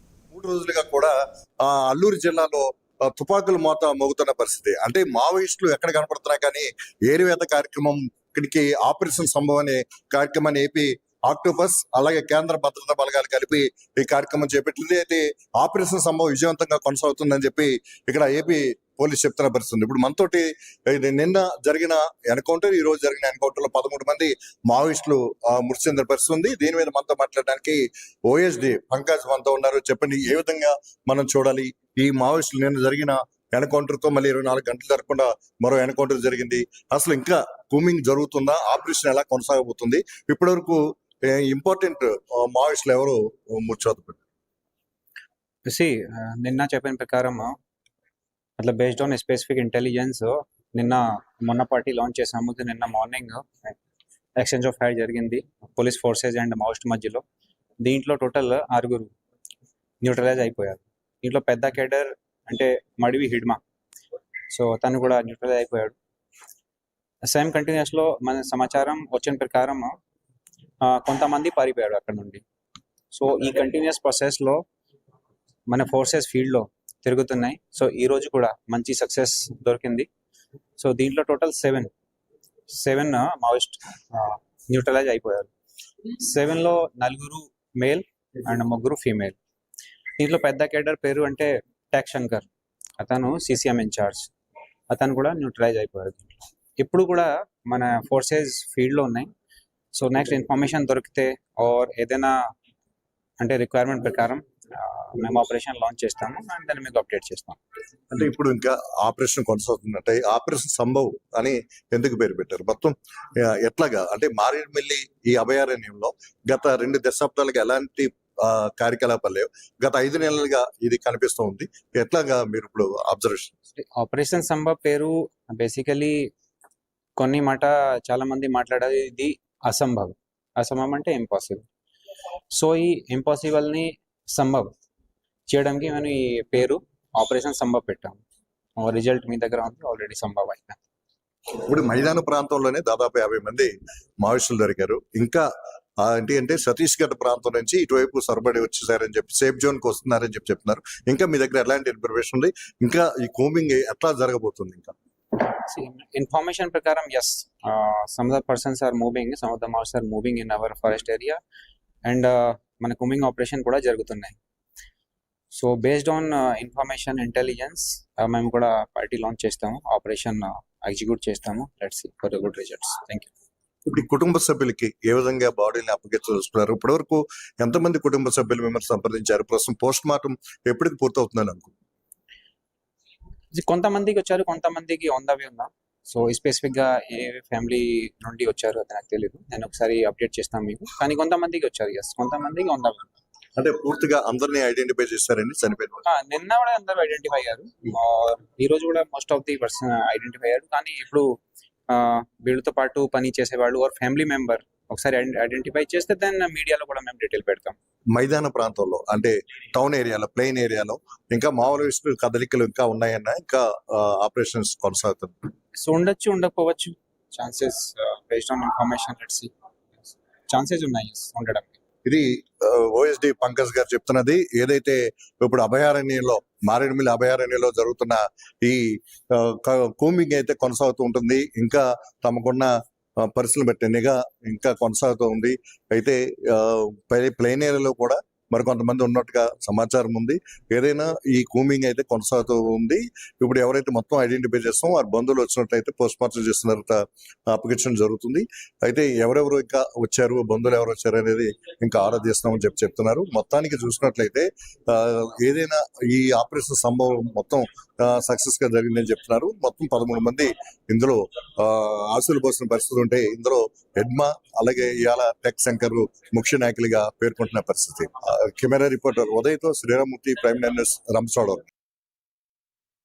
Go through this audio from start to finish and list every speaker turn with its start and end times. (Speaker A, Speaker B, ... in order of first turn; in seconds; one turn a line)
Speaker A: 0.3-44.2
Speaker B: 45.6-47.5
Speaker B: 48.6-53.8
Speaker B: 54.4-57.2
Speaker B: 57.8-59.1
Speaker B: 60.0-63.6
Speaker B: 64.5-66.0
Speaker B: 67.2-69.9
Speaker B: 70.8-72.4
Speaker B: 73.1-74.6
Speaker B: 75.7-80.1
Speaker B: 80.8-81.9
Speaker B: 82.7-85.5
Speaker B: 86.1-89.3
Speaker B: 90.2-92.5
Speaker B: 93.0-94.3
Speaker B: 94.9-99.3
Speaker B: 99.9-102.4
Speaker B: 103.4-107.6
Speaker A: 108.1-123.5
Speaker B: 123.8-126.3
Speaker B: 127.2-131.6
Speaker B: 132.5-134.7
Speaker B: 135.5-138.2
Speaker B: 138.8-140.8
Speaker A: 141.6-145.4
Speaker A: 146.0-154.9
Speaker B: 155.4-161.4
Speaker B: 162.1-164.3
Speaker B: 165.5-173.3
Speaker A: 173.8-181.7
Speaker B: 183.5-193.1
Speaker A: 193.6-196.0
Speaker B: 196.1-201.3
Speaker B: 201.9-207.8
Speaker A: 208.1-215.4
Speaker B: 215.8-219.5
Speaker B: 220.0-221.8
Speaker A: 222.1-271.6